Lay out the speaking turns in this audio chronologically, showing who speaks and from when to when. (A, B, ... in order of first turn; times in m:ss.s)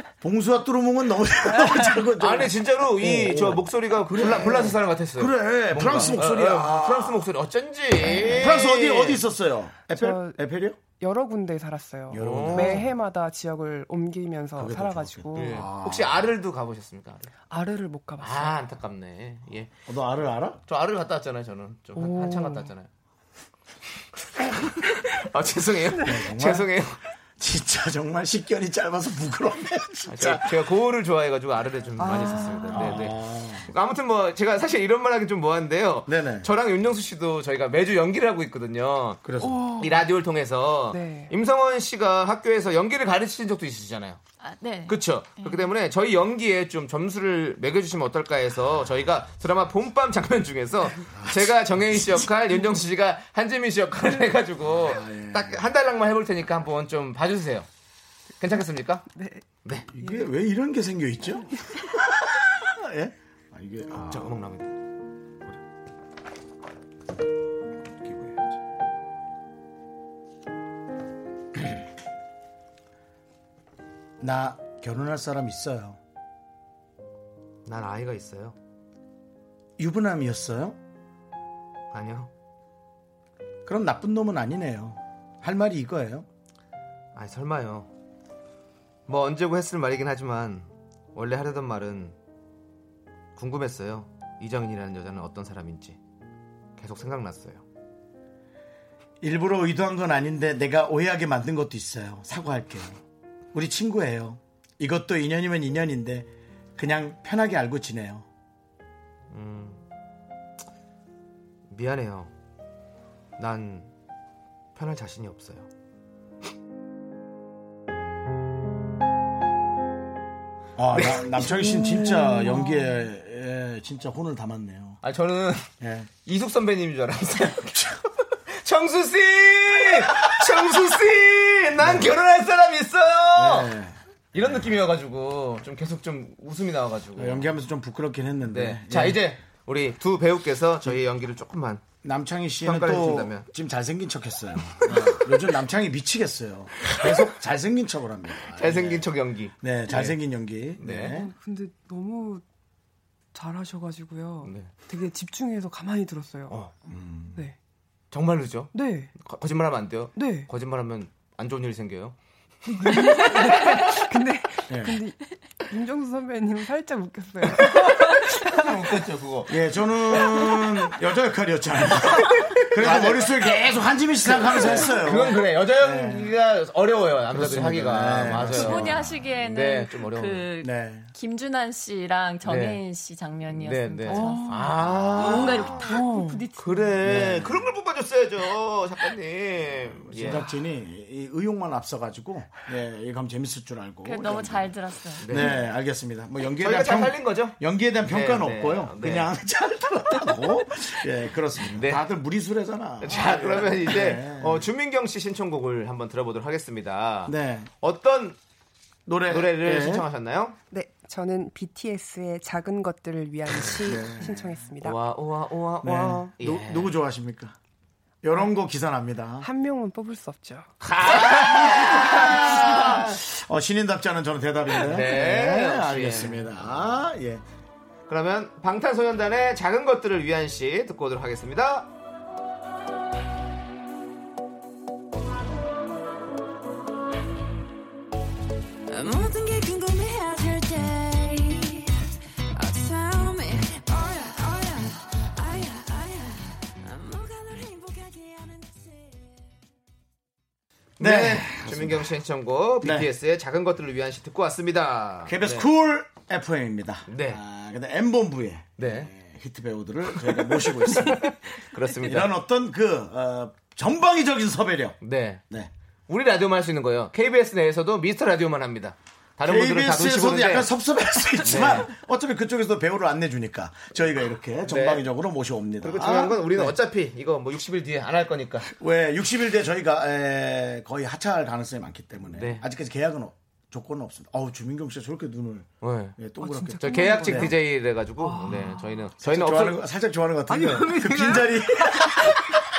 0:00.2-0:07.3 A
0:01.6-0:02.0 B
0:02.2-0:09.2 C
0:08.0-0:08.5 B
0:08.0-0:10.8 A
0:09.9-0:10.4 B
0:11.0-0:15.7 B
0:12.1-0:12.9 A
0:12.2-0:12.9 C
0:14.6-0:16.3 A
0:15.4-0:17.3 C
0:17.5-0:18.6 B
0:18.2-0:19.7 C
0:19.9-0:20.6 A
0:20.7-0:22.9 C
0:22.0-0:22.7 B
0:24.4-0:27.0 C
0:26.0-0:26.7 A
0:27.4-0:30.6 A
0:30.1-0:39.2 C
0:32.0-0:33.1 B
0:32.7-0:33.7 A
0:36.1-0:36.5 A
0:39.2-0:39.8 A
0:39.4-0:40.0 B
0:39.8-0:44.2 C
0:40.9-0:41.3 B
0:44.4-0:45.7 D
0:44.9-0:57.7 C
0:51.2-0:52.3 A
0:54.7-0:55.6 A
0:58.4-0:59.1 C
0:59.1-0:59.4 B
0:59.9-1:04.4 A
1:00.0-1:00.3 B
1:03.9-1:04.7 C
1:07.8-1:08.6 A
1:14.2-1:16.0 A
1:17.7-1:18.6 C
1:19.8-1:20.8 A
1:21.9-1:22.3 C
1:23.7-1:26.3 A
1:27.2-1:27.9 C
1:29.1-1:32.2 C
1:33.4-1:36.0 C
1:36.8-1:37.6 C
1:39.2-1:43.0 A
1:43.5-1:48.2 A
1:49.3-1:49.8 C
1:51.7-1:52.3 C
1:53.4-1:53.9 C
1:54.8-1:55.7 C
2:00.8-2:05.0 A
2:00.9-2:01.4 C
2:01.4-2:03.0 B
2:05.0-2:05.7 C
2:05.8-2:06.1 A
2:06.2-2:13.7 C
2:11.8-2:12.2 A
2:13.3-2:14.7 A
2:14.3-2:17.5 C
2:17.2-2:19.2 A
2:18.5-2:21.8 C
2:22.0-2:29.1 A
2:22.6-2:23.5 C
2:24.8-2:25.2 C
2:26.8-2:27.3 C
2:28.6-2:30.2 C
2:29.6-2:31.3 A
2:30.8-2:31.2 C
2:31.1-2:32.4 B
2:33.3-2:36.6 B
2:34.4-2:34.7 C
2:36.9-2:37.5 A
2:38.1-2:42.2 C
2:38.7-2:39.1 B
2:40.2-2:40.5 B
2:42.7-2:43.6 C
2:42.8-2:49.0 B
2:44.7-2:45.0 A
2:47.6-2:49.6 C
2:49.5-2:56.3 A
2:50.1-2:50.6 C
2:52.3-2:53.7 C
2:54.2-3:00.5 C
2:57.3-2:59.0 A
2:58.4-3:07.0 D
3:00.6-3:01.1 A
3:02.4-3:02.8 C
3:03.5-3:05.9 C
3:04.1-3:06.4 B
3:06.6-3:10.5 C
3:07.0-3:07.7 A
3:10.1-3:24.7 A
3:14.0-3:15.6 D
3:15.2-3:15.6 C
3:16.6-3:19.3 C
3:21.7-3:22.0 C
3:23.0-3:28.4 C
3:27.3-3:27.7 A
3:29.1-3:30.1 A
3:29.3-3:30.6 C
3:30.7-3:35.0 B
3:33.8-3:34.5 A
3:34.8-3:36.9 C
3:35.8-3:37.6 A
3:38.2-3:39.5 A
3:39.4-3:40.7 B
3:40.8-3:43.2 C
3:41.1-3:47.4 A
3:41.9-3:42.9 B
3:44.8-3:46.8 C
3:48.1-3:51.9 C
3:58.9-4:01.9 E
4:02.6-4:09.4 E
4:11.0-4:15.7 C
4:11.0-4:12.2 A
4:12.8-4:13.1 A
4:15.3-4:21.4 A
4:17.1-4:17.4 C
4:18.8-4:19.1 C
4:20.2-4:22.3 C
4:21.9-4:25.0 A
4:25.0-4:25.4 C
4:26.1-4:30.7 C
4:29.4-4:36.8 A
4:31.4-4:31.9 C
4:34.7-4:35.0 C
4:35.8-4:38.7 C
4:38.6-4:47.6 A
4:42.3-4:42.6 C
4:45.8-4:46.2 C
4:46.4-4:47.6 B
4:46.8-4:49.8 C
4:48.2-4:48.7 B
4:48.4-4:52.6 A
4:50.5-4:51.5 B